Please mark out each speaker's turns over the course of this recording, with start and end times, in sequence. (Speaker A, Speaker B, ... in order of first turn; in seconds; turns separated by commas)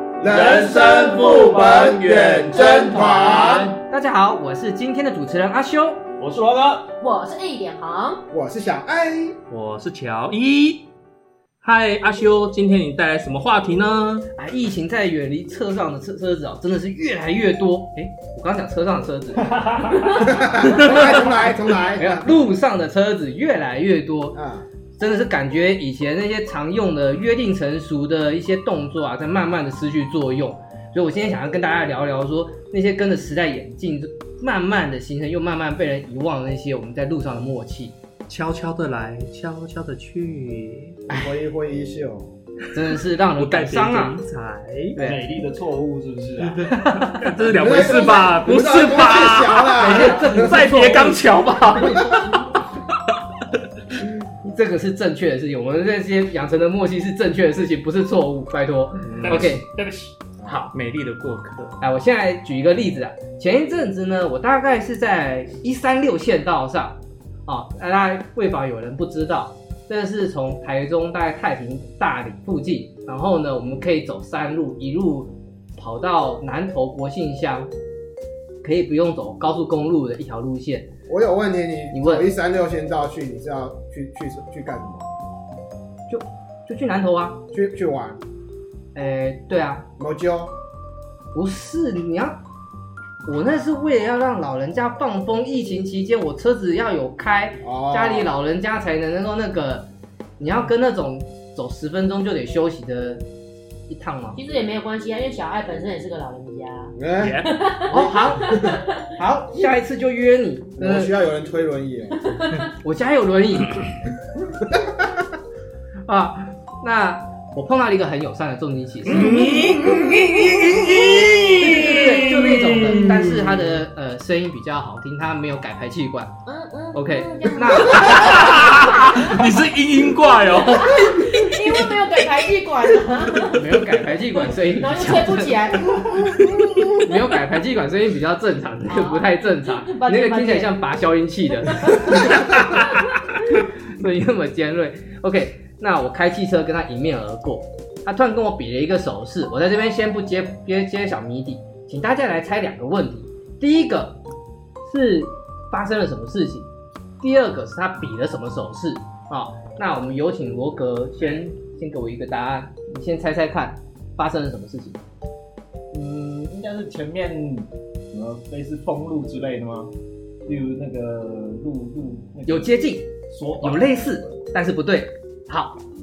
Speaker A: 0.2-3.7, Speaker B: 0.2-3.8, Speaker C: 3.9-6.0, Speaker D: 6.2-7.0, Speaker E: 7.0-8.2, Speaker A: 8.3-9.4, Speaker B: 9.5-10.9, Speaker B: 11.6-14.3, Speaker C: 14.3-21.3, Speaker D: 19.4-20.3, Speaker A: 20.3-22.3, Speaker B: 20.8-21.1, Speaker C: 21.9-24.4, Speaker A: 24.3-24.7, Speaker C: 25.0-38.0, Speaker B: 38.3-41.0, Speaker A: 41.1-42.4, Speaker C: 42.7-44.2, Speaker B: 43.4-45.0, Speaker C: 45.0-45.3, Speaker D: 45.0-46.7, Speaker B: 46.5-52.5, Speaker C: 46.8-47.3, Speaker A: 47.5-50.5, Speaker C: 49.8-51.2, Speaker C: 54.4-59.7, Speaker B: 59.1-59.6, Speaker D: 59.1-60.1, Speaker C: 60.5-60.7, Speaker B: 60.7-61.8, Speaker C: 61.8-77.7, Speaker C: 78.6-80.9, Speaker A: 81.1-85.1, Speaker C: 81.9-82.3, Speaker C: 86.1-87.4, Speaker A: 87.5-88.2, Speaker C: 89.0-89.9, Speaker A: 90.0-90.6, Speaker C: 91.3-92.4, Speaker C: 93.2-99.9, Speaker A: 97.6-98.4, Speaker C: 100.4-103.2, Speaker C: 103.9-104.4, Speaker E: 104.3-108.9, Speaker A: 107.0-107.4, Speaker B: 107.2-107.6, Speaker C: 107.9-111.1, Speaker A: 110.8-112.4, Speaker E: 112.3-112.7, Speaker C: 112.8-114.0, Speaker A: 114.7-115.2, Speaker C: 116.1-119.5, Speaker B: 119.1-123.7, Speaker C: 121.6-126.4, Speaker E: 126.5-129.4, Speaker C: 126.9-128.3, Speaker B: 127.8-131.9, Speaker E: 130.6-133.6, Speaker C: 133.5-135.6, Speaker E: 134.7-136.6, Speaker A: 136.3-136.8, Speaker C: 137.0-154.2, Speaker E: 138.9-140.8, Speaker E: 141.7-142.8, Speaker C: 154.8-156.7, Speaker C: 157.2-165.0, Speaker D: 165.9-169.9, Speaker D: 170.5-174.4, Speaker C: 172.5-175.8